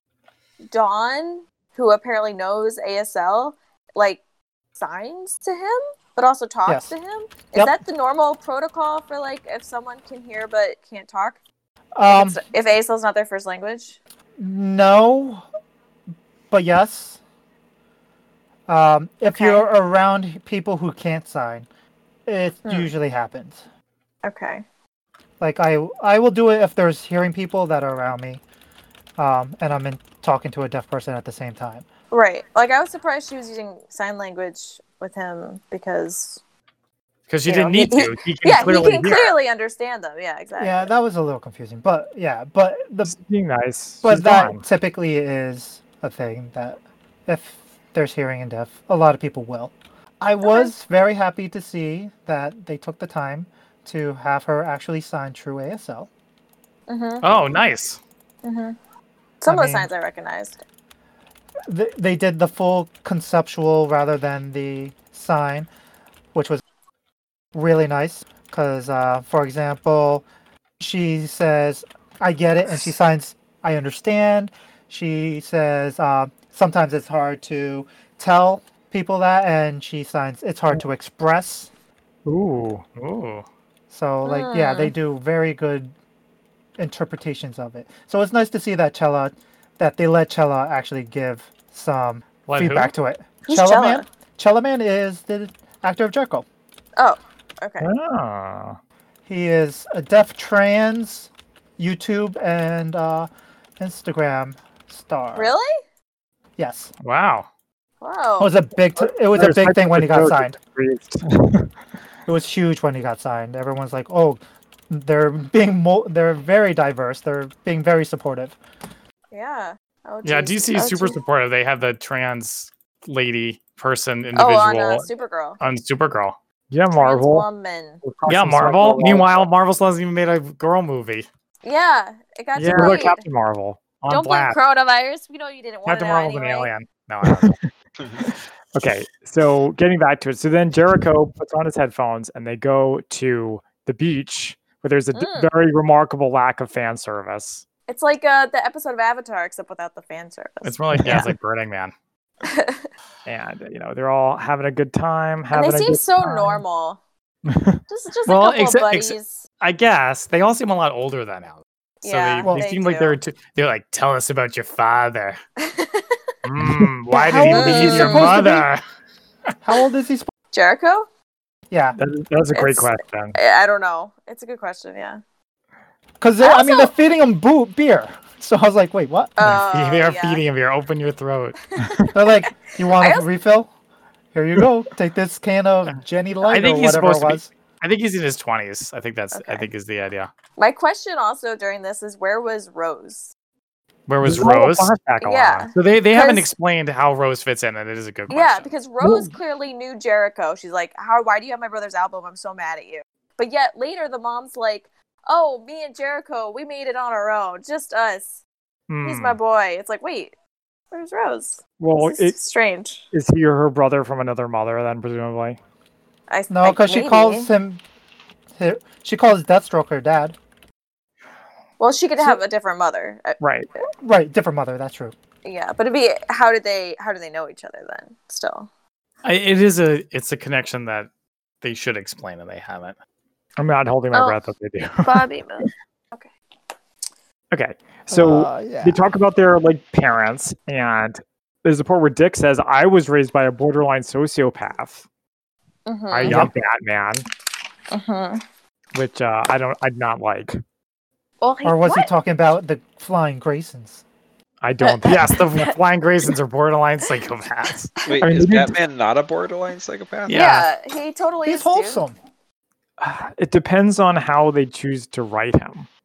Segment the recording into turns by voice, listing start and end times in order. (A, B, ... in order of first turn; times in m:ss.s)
0:00.7-0:04.2 A
0:04.8-0:11.4 A
0:06.6-0:06.9 B
0:12.0-0:12.4 B
0:12.0-0:14.0 A
0:14.4-0:15.4 B
0:16.5-0:17.2 B
0:18.7-0:21.7 B
0:19.3-0:19.6 A
0:22.2-0:23.6 B
0:22.6-0:22.9 A
0:24.2-0:24.6 A
0:25.4-0:28.4 B
0:29.2-0:31.8 B
0:32.1-0:36.4 A
0:37.3-0:39.4 C
0:37.5-0:40.9 A
0:40.6-0:43.2 B
0:43.0-0:44.6 D
0:44.0-0:56.1 B
0:50.4-0:50.7 A
0:56.9-0:57.4 A
0:57.2-0:58.0 C
0:58.4-0:58.7 A
0:59.4-1:00.6 A
0:59.5-0:59.9 B
1:01.7-1:05.7 B
1:06.3-1:06.6 B
1:07.5-1:10.2 B
1:10.8-1:21.7 B
1:22.2-1:22.8 D
1:23.0-1:23.4 C
1:23.9-1:25.9 B
1:24.2-1:24.9 A
1:26.8-1:36.4 B
1:32.5-1:32.9 C
1:33.5-1:34.0 A
1:37.0-1:37.9 A
1:37.8-1:38.8 D
1:39.2-1:45.5 B
1:45.3-1:45.7 A
1:46.6-1:46.9 B
1:47.0-1:47.5 C
1:48.0-1:48.5 A
1:48.4-1:50.6 B
1:49.0-1:51.7 D
1:52.2-1:58.6 B
1:59.3-2:01.2 A
2:00.2-2:05.1 C
2:04.3-2:05.6 A
2:05.6-2:06.4 C
2:06.7-2:07.4 D
2:06.9-2:08.0 A
2:08.0-2:09.5 D
2:08.3-2:11.3 C
2:11.6-2:13.2 A
2:12.6-2:13.1 C
2:12.6-2:13.8 D
2:14.0-2:14.6 C
2:14.1-2:16.7 A
2:15.8-2:17.5 C
2:17.2-2:17.6 D
2:18.0-2:18.3 E
2:18.3-2:27.6 D
2:25.1-2:25.5 A
2:27.9-2:31.3 A
2:30.6-2:31.9 C
2:31.0-2:31.3 D
2:32.4-2:32.9 A
2:33.2-2:36.6 D
2:35.5-2:37.0 A
2:37.5-2:37.8 D
2:37.9-2:39.4 A
2:38.2-2:45.4 C
2:42.0-2:43.2 A
2:45.6-2:46.3 A
2:46.4-2:48.8 C
2:46.6-2:46.9 D
2:47.1-2:48.7 B
2:47.5-2:48.4 A
2:49.6-2:50.3 B
2:50.5-2:51.1 A
2:51.7-2:52.0 B
2:52.0-2:53.4 D
2:52.5-2:55.2 A
2:56.2-2:59.5 B
2:56.4-2:56.9 A
2:59.4-3:00.4 A
2:59.6-3:01.6 C
3:01.7-3:03.2 A
3:02.1-3:03.7 B
3:04.3-3:07.5 B
3:06.4-3:10.3 C
3:09.3-3:09.7 A
3:10.6-3:13.3 A
3:14.1-3:14.9 C
3:14.2-3:15.7 D
3:15.2-3:16.5 A
3:15.7-3:18.7 C
3:18.3-3:28.4 A
3:19.0-3:19.3 D
3:29.0-3:29.4 C
3:29.0-3:30.3 A
3:30.9-3:33.0 A
3:31.8-3:32.4 D
3:33.1-3:35.6 D
3:36.3-3:37.5 A
3:36.5-3:37.8 B
3:38.6-3:40.4 B
3:41.8-3:43.4 A
3:43.4-3:43.7 D
3:44.0-3:45.1 B
3:45.4-3:48.7 A
3:49.2-3:51.1 C
3:51.6-3:53.0 C
3:53.6-3:55.2 D
3:54.1-3:54.4 A
3:55.0-3:56.3 A
3:57.5-4:05.0 D
3:58.1-3:59.0 B
4:05.8-4:06.4 A
4:06.1-4:07.3 D
4:07.9-4:08.4 A
4:08.9-4:10.6 D
4:11.4-4:12.1 A
4:11.6-4:14.0 B
4:14.6-4:15.5 D
4:14.8-4:15.6 A
4:15.0-4:17.9 C
4:18.0-4:20.5 E
4:18.2-4:18.8 D
4:20.3-4:20.7 C
4:20.3-4:22.0 A
4:21.4-4:22.2 B
4:23.0-4:25.9 D